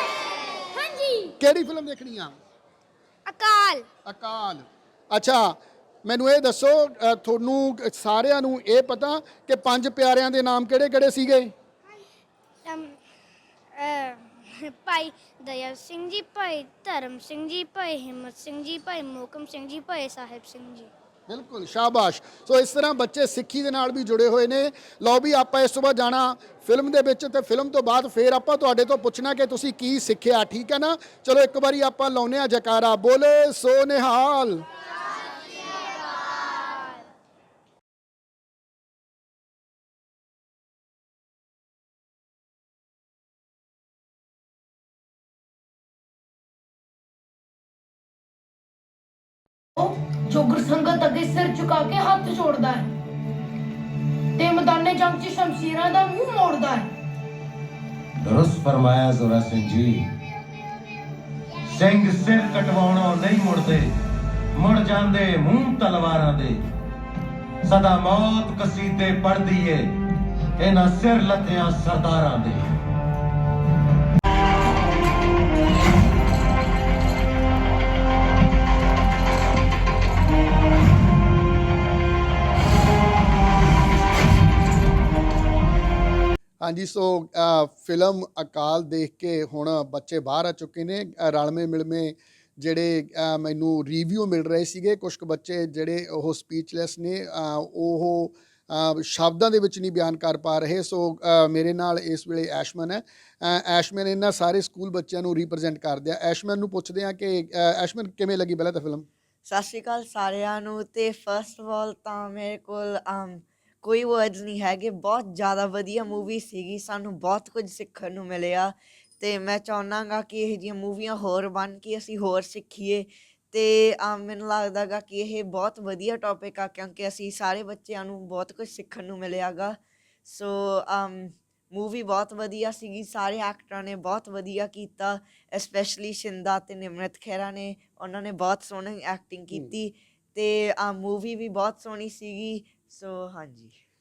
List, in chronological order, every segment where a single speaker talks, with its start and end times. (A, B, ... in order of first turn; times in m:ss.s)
0:00.8-0:01.1 A
0:01.4-0:02.4 B
0:03.3-0:03.8 A
0:04.0-0:11.5 B
0:12.6-0:13.0 A
0:13.8-0:20.9 A
0:21.3-0:34.6 B
0:49.8-0:52.9 C
0:54.4-0:56.9 C
0:58.2-1:00.1 D
1:01.7-1:03.9 D
1:04.5-1:06.6 D
1:07.6-1:09.9 D
1:10.6-1:12.7 D
1:26.6-1:49.0 B
1:49.5-2:23.8 E